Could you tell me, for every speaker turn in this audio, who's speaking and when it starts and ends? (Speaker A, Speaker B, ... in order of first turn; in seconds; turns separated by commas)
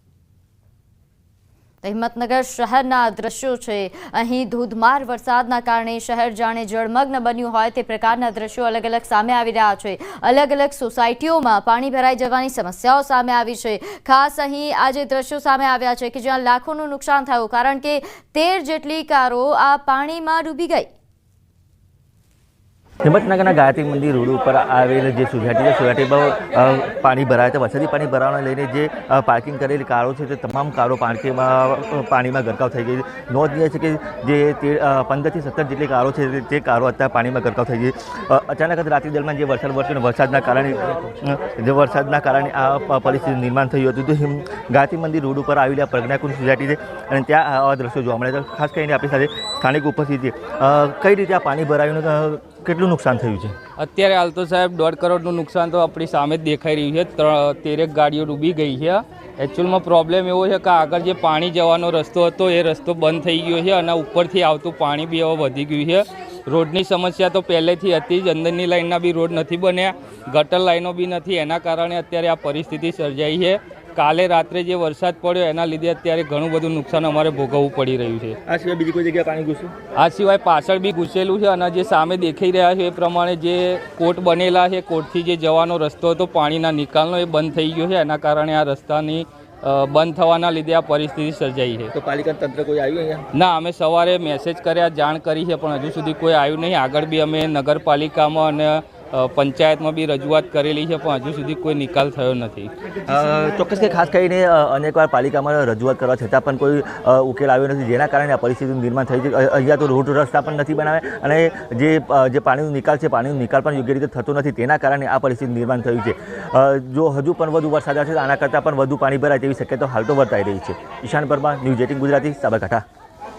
Speaker A: 1.8-20.9, Speaker B: 23.0-53.5, Speaker C: 53.8-78.4, Speaker B: 78.5-79.7, Speaker C: 80.0-91.9, Speaker B: 92.0-93.2, Speaker C: 93.3-102.7, Speaker B: 103.1-122.8